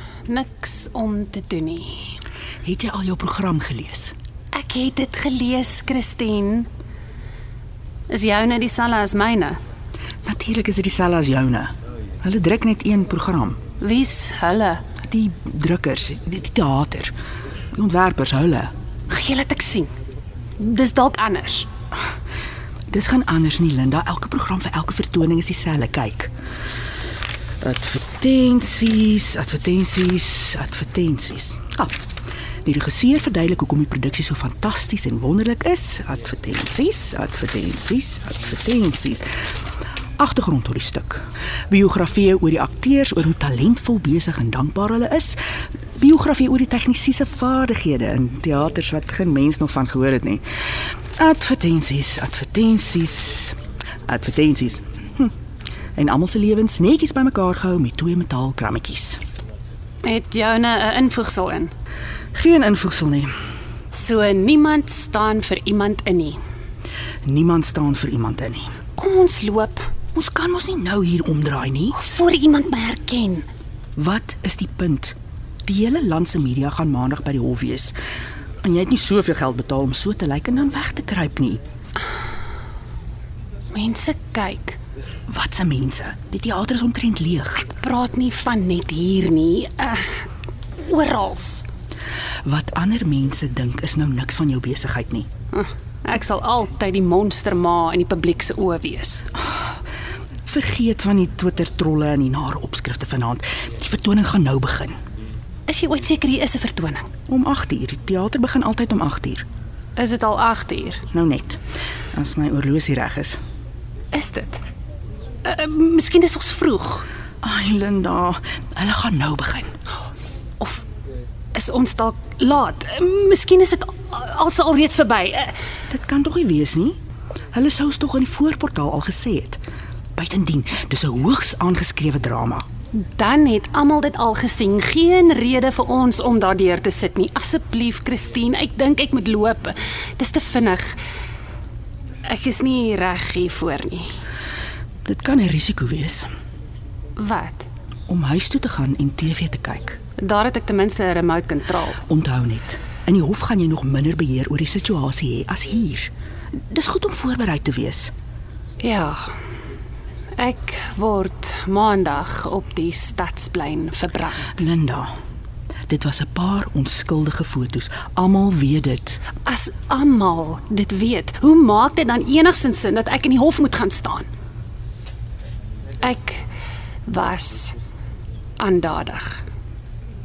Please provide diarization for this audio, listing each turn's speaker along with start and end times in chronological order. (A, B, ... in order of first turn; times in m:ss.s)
0:00.3-0:02.2 A
0:02.6-0:04.2 B
0:04.5-0:06.7 A
0:08.1-0:09.6 A
0:10.2-0:13.6 B
0:13.8-0:14.8 A
0:15.0-0:17.1 B
0:17.7-0:18.7 B
0:19.1-0:19.9 A
0:20.6-0:21.7 A
0:22.9-0:26.3 B
0:27.6-0:32.0 B
0:32.6-0:39.3 B
0:40.2-0:45.4 B
0:46.0-0:50.4 B
0:51.1-0:55.3 B
0:56.0-0:59.2 B
1:00.0-1:01.7 A
1:02.3-1:03.3 B
1:03.9-1:06.4 A
1:07.2-1:08.8 B
1:09.0-1:09.9 A
1:10.1-1:12.0 B
1:11.9-1:13.5 A
1:14.0-1:15.2 B
1:15.7-1:18.0 B
1:18.6-1:21.6 B
1:23.7-1:24.8 A
1:25.3-1:27.6 B
1:27.6-1:30.3 A
1:30.8-1:31.7 A
1:32.4-1:35.3 B
1:35.5-1:39.3 A
1:39.4-1:39.8 B
1:40.5-1:45.0 B
1:45.7-1:47.1 A
1:47.3-1:49.5 B
1:50.0-1:51.0 A
1:51.1-1:51.6 B
1:52.1-1:53.4 B
1:54.1-1:54.6 A
1:55.4-1:57.1 A
1:57.4-1:59.7 B
2:01.5-2:05.6 A
2:05.9-2:07.0 B
2:07.5-2:09.6 B
2:10.2-2:12.7 B
2:12.9-2:21.0 A
2:22.2-2:24.1 A
2:25.0-2:26.3 B
2:27.2-2:27.7 A
2:28.1-2:30.0 B
2:30.2-2:32.0 A
2:32.1-2:38.1 B
2:38.8-2:39.2 A
2:40.4-2:44.6 A
2:44.6-2:45.1 B
2:45.9-2:49.2 B
2:49.4-2:54.3 A
2:56.0-2:56.4 A
2:57.1-2:57.8 A
2:58.6-2:59.4 A